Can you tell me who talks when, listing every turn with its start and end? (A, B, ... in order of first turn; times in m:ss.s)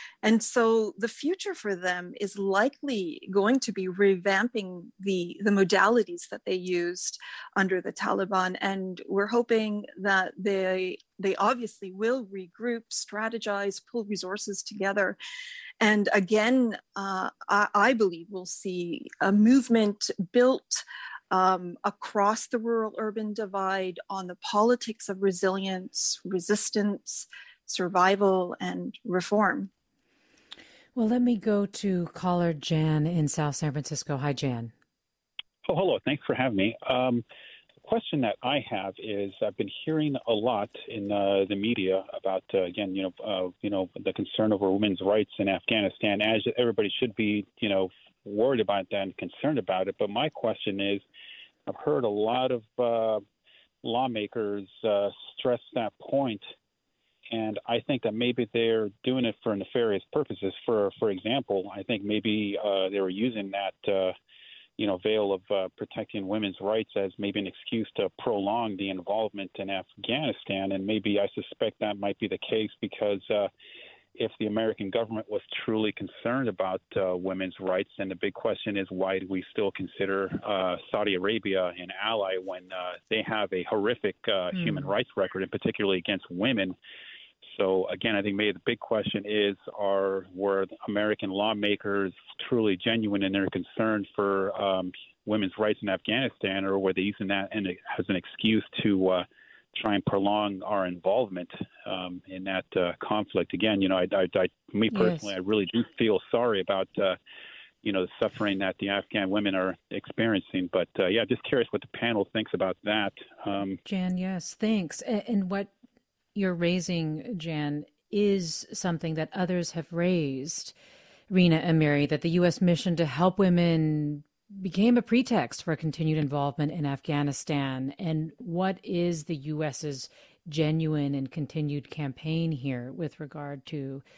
0:00.2-0:15.2 A
0:15.8-0:29.7 A
0:31.0-0:34.7 B
0:35.7-0:37.2 C
0:37.8-0:51.0 C
0:51.7-0:53.2 C
0:53.8-0:56.4 C
0:57.3-1:04.2 C
1:04.8-1:13.5 C
1:14.2-1:26.8 C
1:24.6-1:24.8 B
1:27.4-1:47.2 C
1:44.9-1:45.3 B
1:47.8-1:53.8 C
1:53.8-1:55.7 B
1:56.4-2:00.7 B
2:01.3-2:14.0 B